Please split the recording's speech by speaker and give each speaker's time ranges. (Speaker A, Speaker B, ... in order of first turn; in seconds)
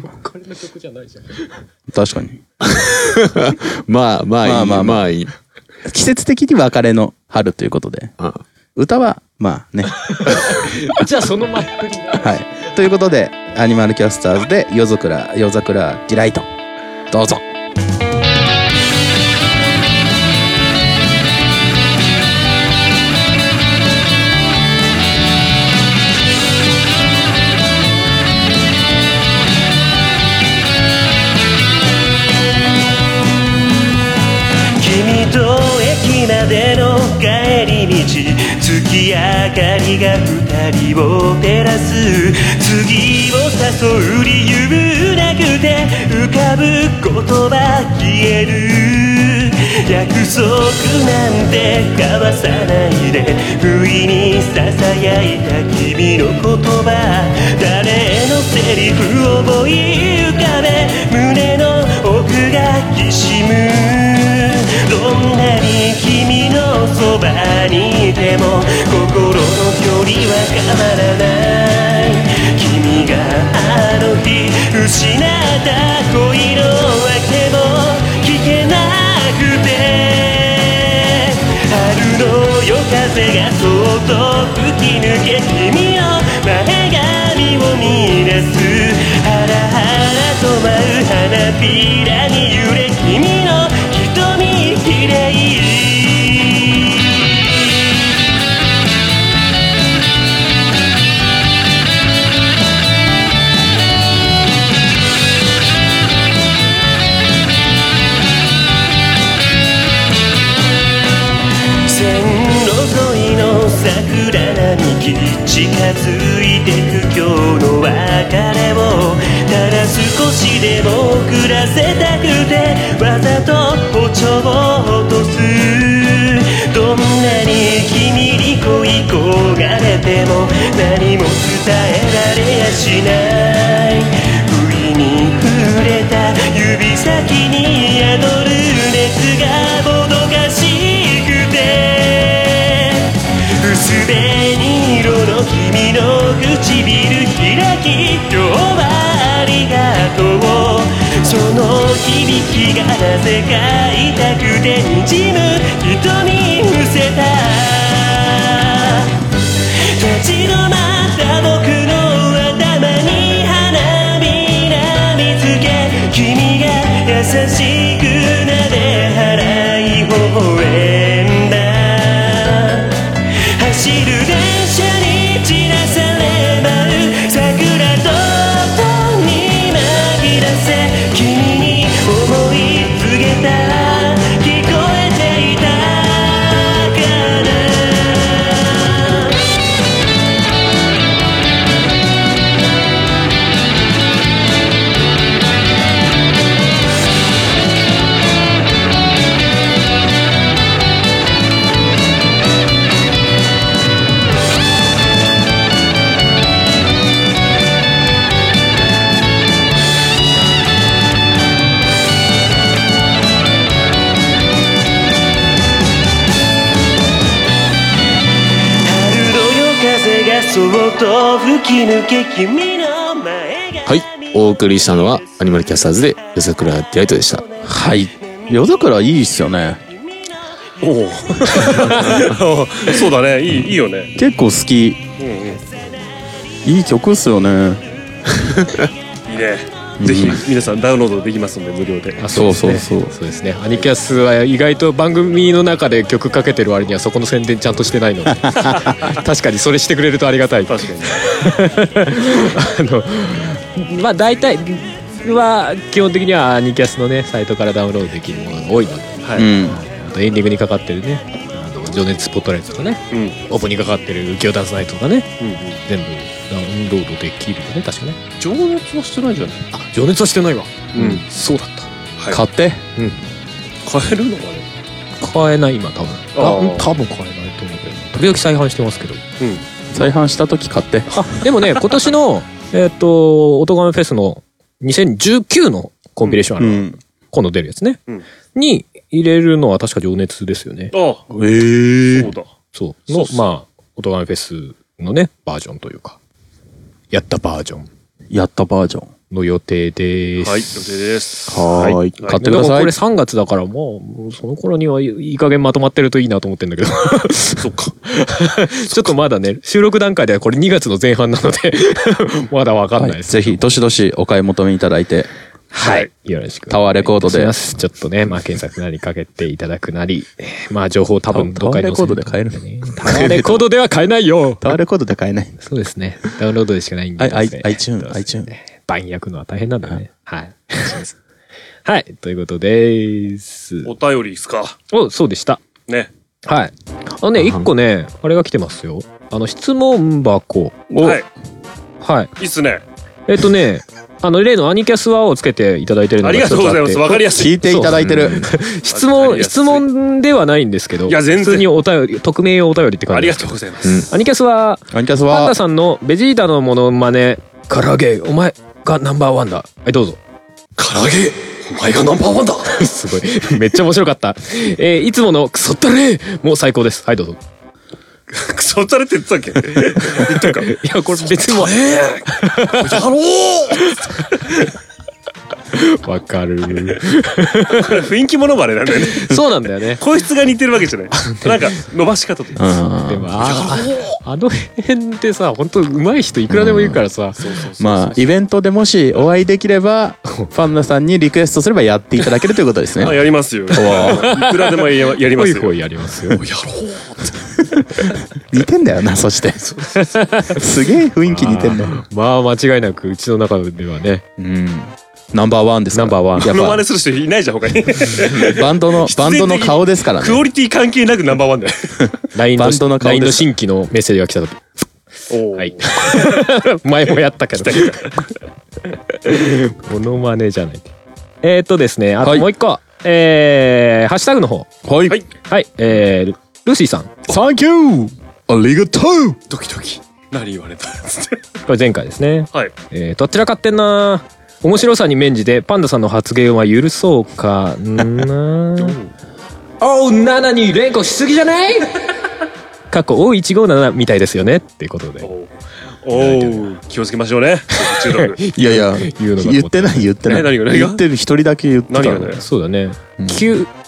Speaker A: 0.2-1.6, 10.0-12.4, 242.2-268.2, 269.7-271.9, 275.2-279.2, 281.1-288.0, 288.6-290.9, 292.7-296.2, 297.1-297.9, 299.3-300.7, 301.8-313.6, 315.7-324.8, 325.6-331.0, 331.9-333.9, 334.9-335.6, 336.5-340.9, 342.0-342.3, 343.3-360.2, 362.8-367.4, 370.1-373.0, 375.7-378.1, 379.0-380.0, 381.2-381.7, 383.1-387.8, 393.8-396.4, 400.0-400.6, 401.3-404.2, 405.9-406.6, 412.4-414.9, 415.6-418.2, 419.2-420.9, 421.4-424.7, 425.5-427.2, 431.7-439.0, 439.8-442.0, 442.9-445.3, 446.1-446.7, 447.8-450.1, 452.4-453.7
Speaker B: 1.9-2.4, 4.4-5.0, 5.8-8.1, 8.8-10.5, 12.1-16.5, 17.1-17.4, 227.6-229.8, 233.5-235.0, 236.7-237.8, 240.0-240.4, 242.3-243.1, 259.4-259.8, 272.3-272.8, 279.9-281.3, 286.6-287.0, 291.3-292.3, 298.3-299.1, 302.2-302.9, 313.0-315.3, 316.7-317.6, 321.3-322.6, 324.6-325.5, 327.2-328.5, 340.9-341.2, 347.1-348.5, 354.9-355.6, 382.6-383.3, 386.5-387.1, 387.8-394.3, 398.5-399.6, 400.6-402.0, 404.4-406.8, 408.4-410.4, 412.6-413.5, 422.2-422.5, 424.9-425.2, 427.3-429.4, 448.5-452.4, 453.2-453.6
Speaker C: 2.6-5.3, 223.9-227.4, 238.4-238.9, 301.5-302.2, 323.0-323.7, 330.8-331.2, 337.4-337.7, 348.0-348.5, 353.8-354.1
Speaker D: 34.8-97.4, 111.9-159.2, 159.8-173.0, 173.6-189.4, 218.8-223.9
Speaker E: 230.8-234.1, 235.2-235.7, 239.3-242.5, 250.7-251.2, 259.2-259.5, 263.1-263.4, 265.4-265.8, 268.4-269.7, 270.9-271.2, 273.9-274.7, 276.4-276.9, 290.9-291.2, 292.1-292.5, 293.1-293.4, 300.4-301.6, 302.2-302.5, 307.6-307.9, 315.8-316.1, 333.9-334.8, 341.0-341.3, 342.4-342.8, 346.2-347.6, 348.9-349.9, 351.1-351.7, 353.1-354.0, 360.8-362.8, 368.3-370.8, 371.4-374.7, 377.8-379.4, 380.0-382.8, 383.4-384.2, 387.4-388.0, 393.0-395.8, 396.3-397.4, 406.4-412.1, 415.3-416.4, 417.6-418.3, 429.5-431.4, 438.8-439.1, 445.2-448.4, 450.3-451.0, 451.9-452.4